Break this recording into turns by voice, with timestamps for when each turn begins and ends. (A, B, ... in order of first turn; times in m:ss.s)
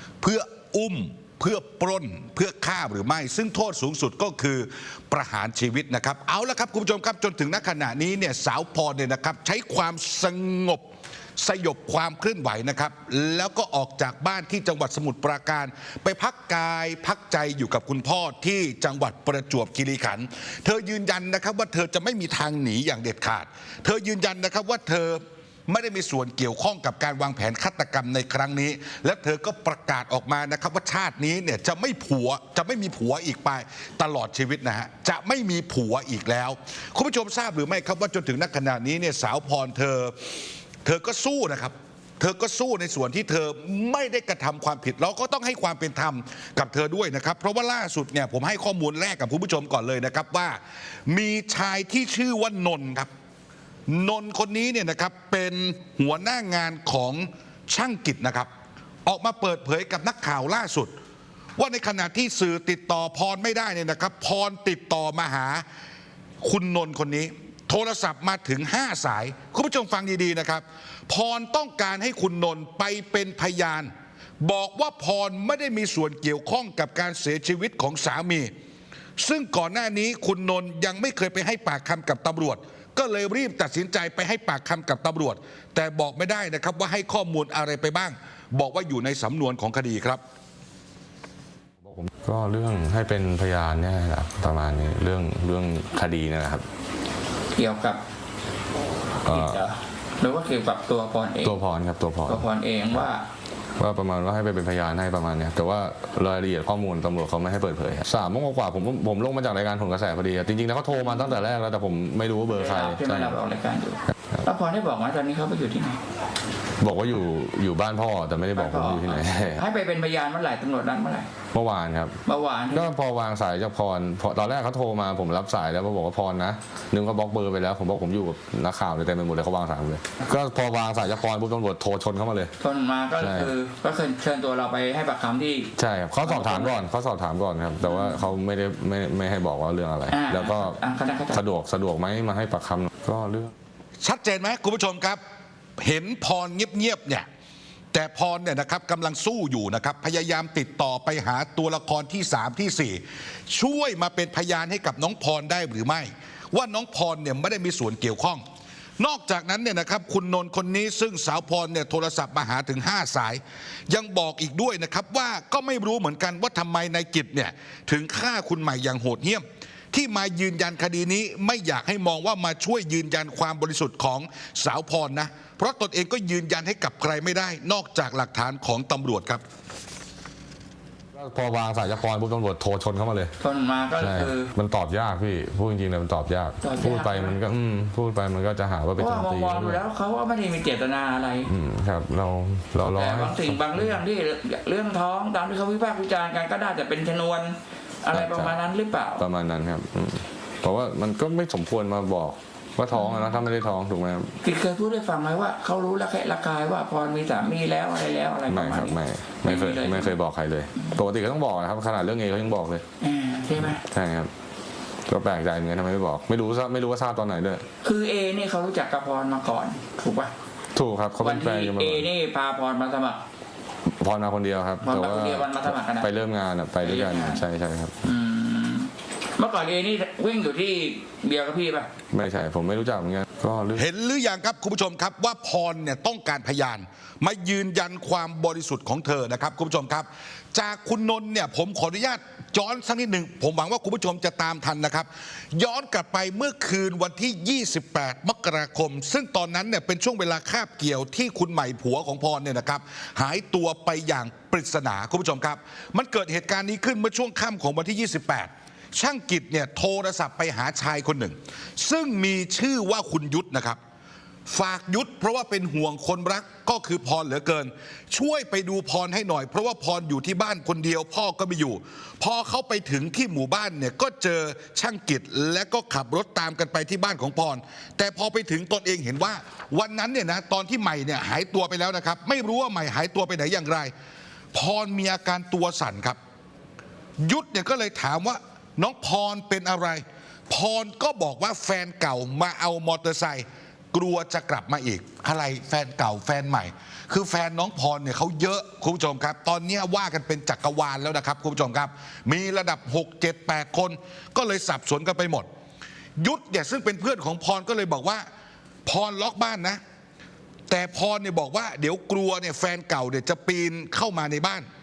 0:00.2-0:10.9 A
0:11.4-0:40.2 A
0:40.8-0:53.1 A
0:53.9-0:58.5 A
0:59.0-1:00.9 A
1:01.6-1:05.6 A
1:06.4-1:13.9 A
1:14.4-1:18.5 A
1:19.2-1:30.2 A
1:31.8-1:36.7 B
1:37.5-1:38.0 C
1:39.2-1:39.6 B
1:39.2-1:41.5 C
1:41.4-1:42.5 B
1:42.3-1:43.2 C
1:43.8-1:53.4 B
1:52.5-1:56.0 C
1:56.8-1:59.7 B
1:58.6-2:01.3 C
2:01.5-2:02.2 B
2:02.3-2:02.9 C
2:02.7-2:12.5 B
2:12.6-2:16.8 C
2:13.2-2:13.5 B
2:15.8-2:20.8 B
2:17.9-2:18.1 C
2:20.1-2:21.4 C
2:21.3-2:23.5 B
2:24.0-2:25.2 A
2:25.8-2:27.3 A
2:27.9-2:38.4 A
2:39.0-2:59.4 A
3:01.2-3:03.3 B
3:03.4-3:04.5 C
3:04.0-3:09.8 B
3:06.6-3:07.4 C
3:09.0-3:11.5 C
3:11.5-3:14.0 B
3:12.8-3:19.2 C
3:18.1-3:18.6 B
3:19.2-3:24.3 B
3:22.9-3:23.3 C
3:24.4-3:30.1 C
3:28.5-3:32.8 B
3:33.0-3:33.8 C
3:33.6-3:34.3 B
3:35.1-3:37.6 B
3:37.8-3:40.3 C
3:40.8-3:42.1 B
3:41.2-3:43.2 C
3:43.9-3:48.0 B
3:44.8-3:46.1 C
3:46.8-3:47.4 C
3:48.0-3:51.9 C
3:52.1-3:53.8 B
3:53.8-4:23.8 A
4:24.5-4:43.9 A
4:44.5-4:46.2 A
4:47.2-5:05.5 A
5:06.2-5:08.3 A
5:08.9-5:09.8 A
5:10.7-5:14.7 A